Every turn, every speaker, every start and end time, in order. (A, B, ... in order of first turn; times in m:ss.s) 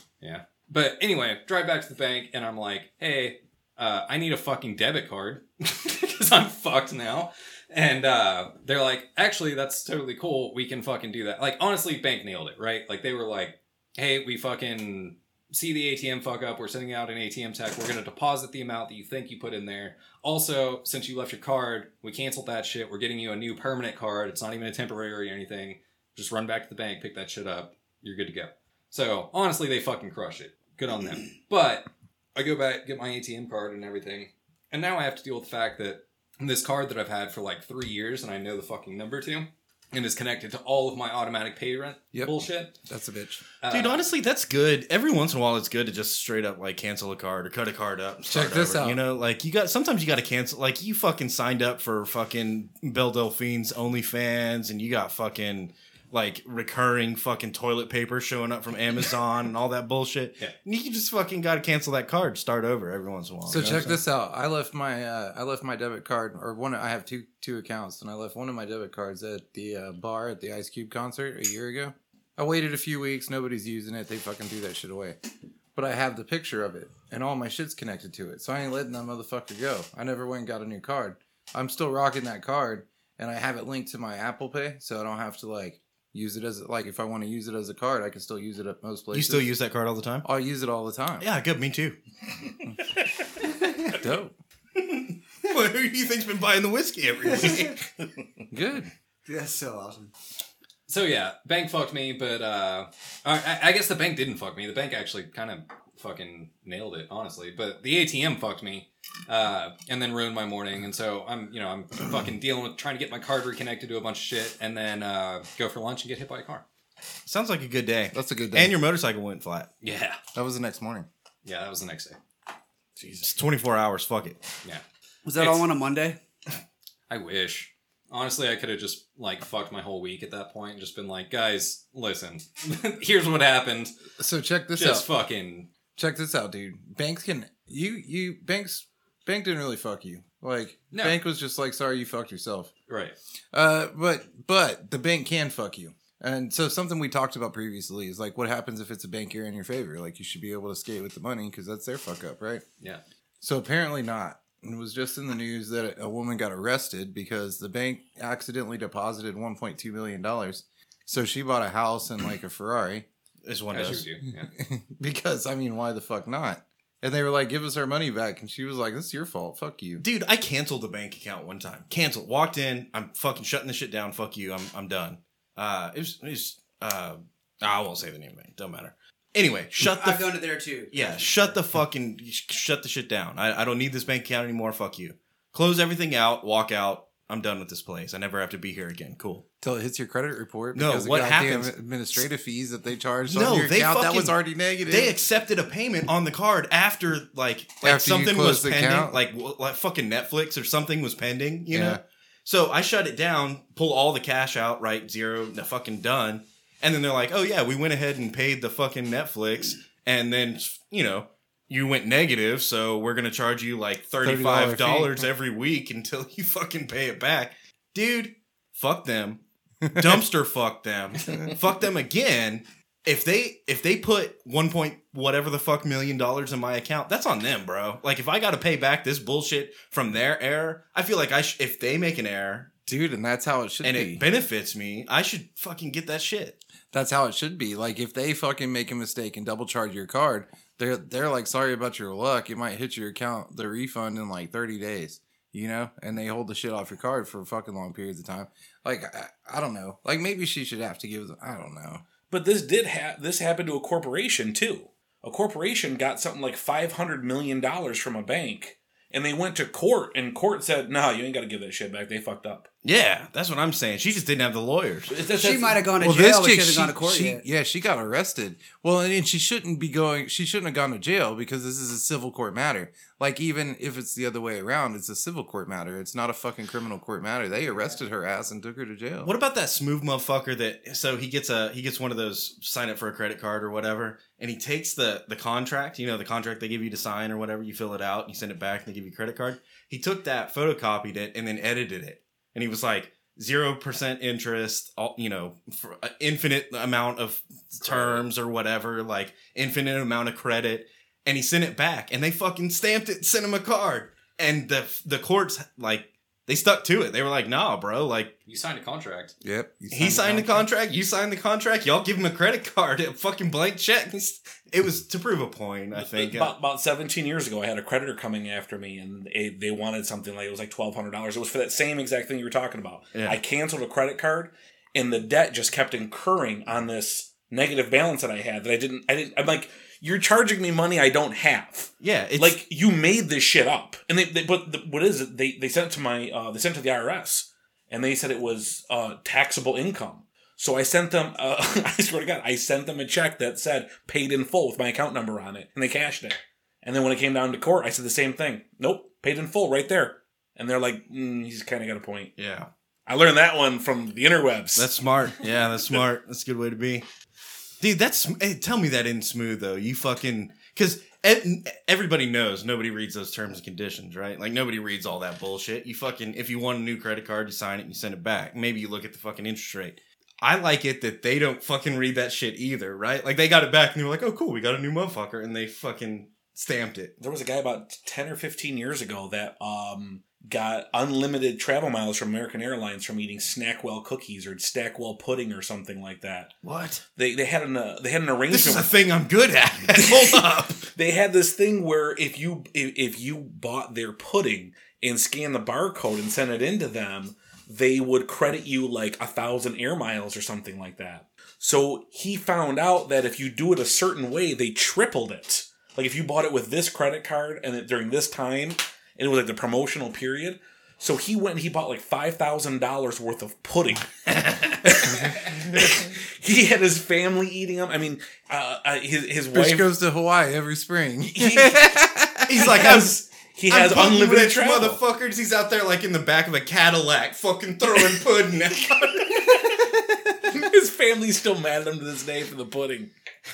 0:00.2-0:42.7 A
0:42.1-0:43.4 B
0:43.6-0:44.0 A
0:43.7-1:04.0 C
0:48.3-0:49.0 B
1:03.4-1:15.2 B
1:15.7-1:29.5 B
1:29.1-1:30.2 C
1:30.2-1:31.3 B
1:31.2-1:32.0 C
1:33.8-1:34.3 B
1:34.8-1:38.4 C
1:38.5-1:38.9 B
1:39.3-1:40.1 D
1:40.9-1:56.6 A
1:57.2-1:59.7 C
1:58.1-1:58.7 B
1:59.8-2:00.2 A
2:00.3-2:01.1 B
2:01.4-2:02.2 A
2:03.0-2:03.3 E
2:03.2-2:04.4 C
2:05.2-2:06.2 D
2:05.4-2:05.6 A
2:07.1-2:13.9 A
2:14.2-2:15.1 B
2:14.7-2:15.7 A
2:16.0-2:22.7 B
2:20.9-2:21.2 A
2:22.9-2:23.1 A
2:23.5-2:32.6 B
2:33.4-2:43.0 B
2:43.4-2:44.1 C
2:43.7-2:44.5 A
2:44.5-2:50.0 B
2:50.0-3:00.4 C
2:59.8-3:01.5 D
3:00.9-3:09.4 C
3:09.6-3:15.1 B
3:10.7-3:12.2 C
3:13.3-3:14.4 C
3:14.8-3:39.4 C
3:17.8-3:19.2 B
3:21.7-3:22.0 B
3:34.2-3:35.3 B
3:39.9-3:52.7 C
3:52.8-3:54.2 B
3:53.8-3:56.6 C
3:56.9-4:12.0 B
4:12.3-4:22.7 E
4:22.8-4:25.1 C
4:25.1-4:25.8 E
4:25.2-4:27.4 D
4:26.0-4:39.3 B
4:39.2-5:08.3 C
4:57.8-4:58.3 A
5:08.5-5:09.4 A
5:09.4-5:10.7 B
5:09.9-5:16.5 C
5:16.0-5:52.3 E
5:32.0-5:32.6 C
5:52.4-5:52.7 C
5:53.1-5:54.9 E
5:54.8-5:57.0 C
5:57.8-6:17.1 C
6:17.2-6:26.5 E
6:26.6-6:27.0 C
6:27.2-6:28.9 E
6:28.5-6:30.9 C
6:29.9-6:54.1 E
6:54.4-6:55.1 C
6:54.7-6:59.9 E
6:59.5-7:02.5 B
7:01.3-7:05.0 E
7:02.5-7:03.2 C
7:03.7-7:09.9 C
7:10.4-7:13.1 E